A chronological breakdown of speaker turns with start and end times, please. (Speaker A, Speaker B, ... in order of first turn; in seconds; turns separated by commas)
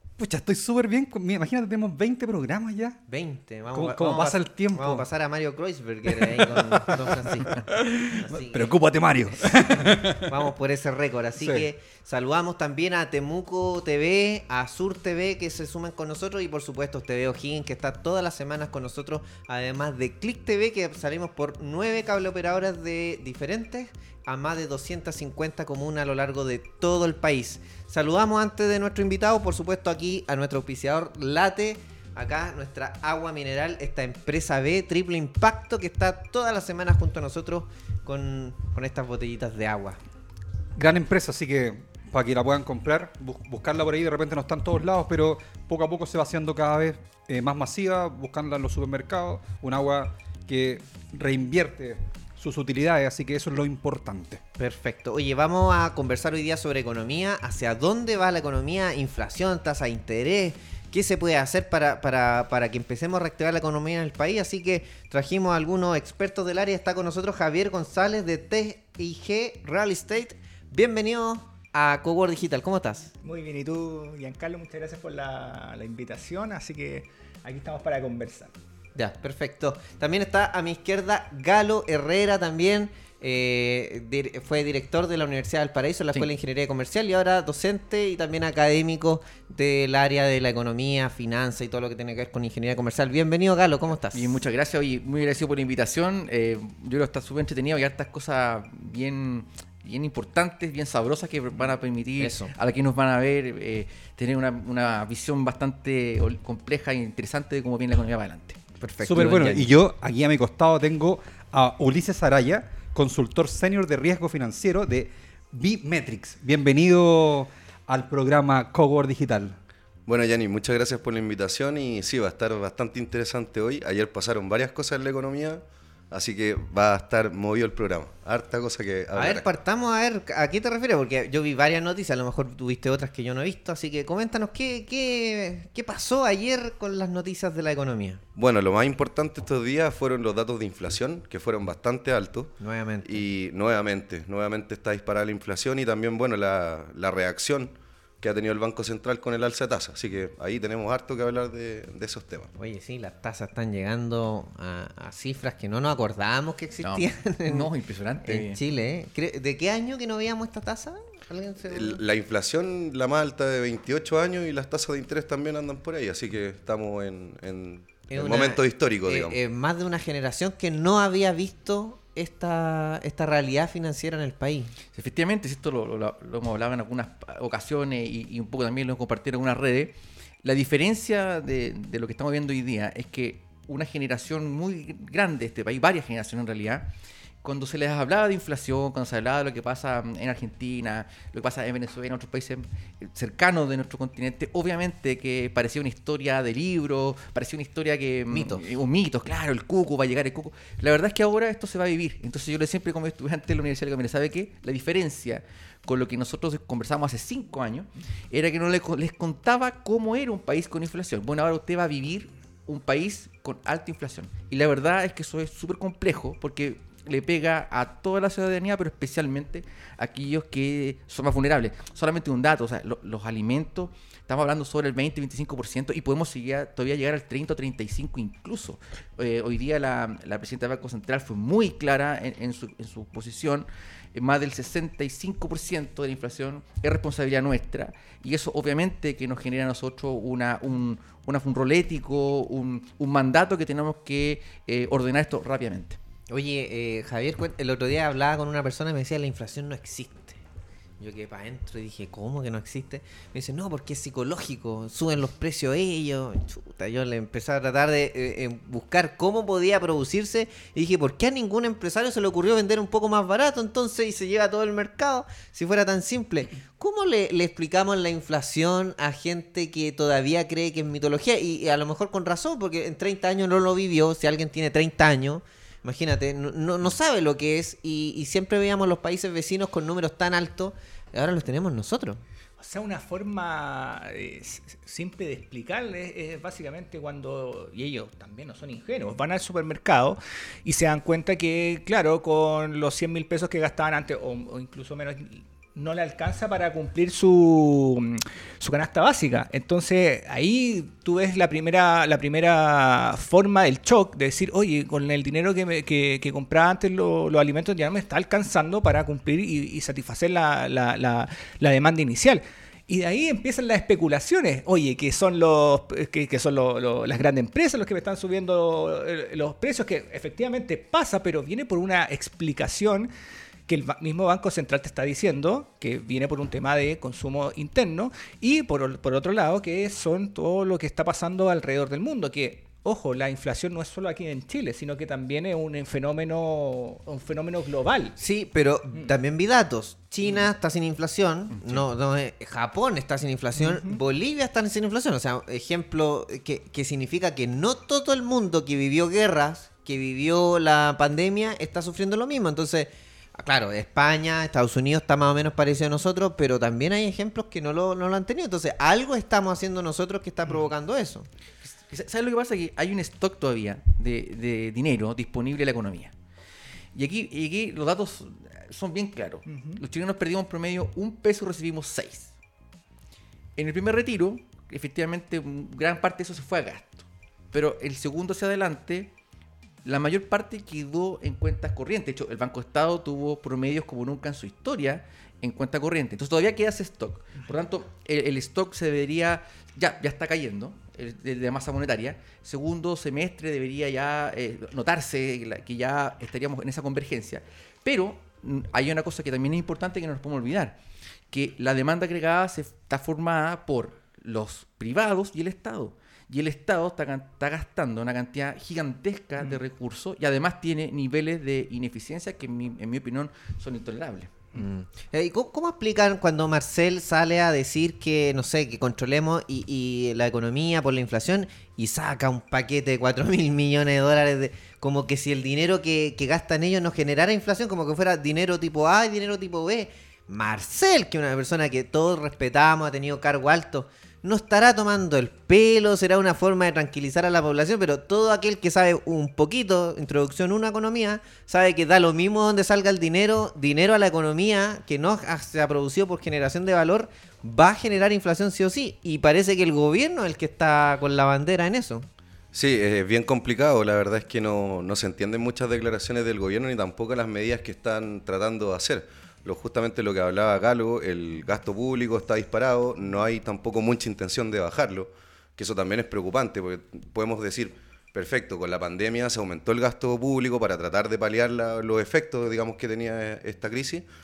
Speaker A: 0.2-3.0, Speaker B: 3.1-7.6, Speaker A: 3.7-5.1, Speaker A: 6.1-10.4, Speaker B: 8.2-8.7, Speaker B: 9.4-40.0, Speaker A: 11.4-11.7, Speaker A: 40.8-54.4, Speaker B: 54.6-73.1, Speaker C: 73.2-78.5, Speaker B: 78.9-94.4, Speaker D: 94.1-108.6, Speaker B: 102.2-102.5, Speaker B: 108.8-109.7, Speaker A: 109.0-119.6, Speaker E: 120.1-129.4, Speaker B: 129.1-138.2, Speaker E: 138.3-152.5, Speaker B: 142.6-143.2, Speaker B: 152.6-157.7, Speaker D: 156.8-158.6, Speaker B: 158.2-162.0, Speaker E: 161.7-169.4, Speaker B: 168.1-174.8, Speaker D: 174.9-186.9, Speaker D: 187.4-246.0, Speaker B: 198.3-198.7, Speaker B: 246.3-250.4, Speaker B: 251.0-282.2, Speaker C: 282.6-323.1, Speaker C: 323.7-338.2, Speaker B: 338.2-361.3, Speaker D: 341.6-341.8, Speaker C: 343.5-344.0, Speaker D: 361.6-366.1, Speaker D: 366.9-372.3, Speaker C: 369.5-369.8, Speaker D: 373.6-379.1, Speaker D: 379.8-400.8, Speaker D: 401.3-414.4, Speaker B: 414.5-452.1, Speaker E: 452.5-474.1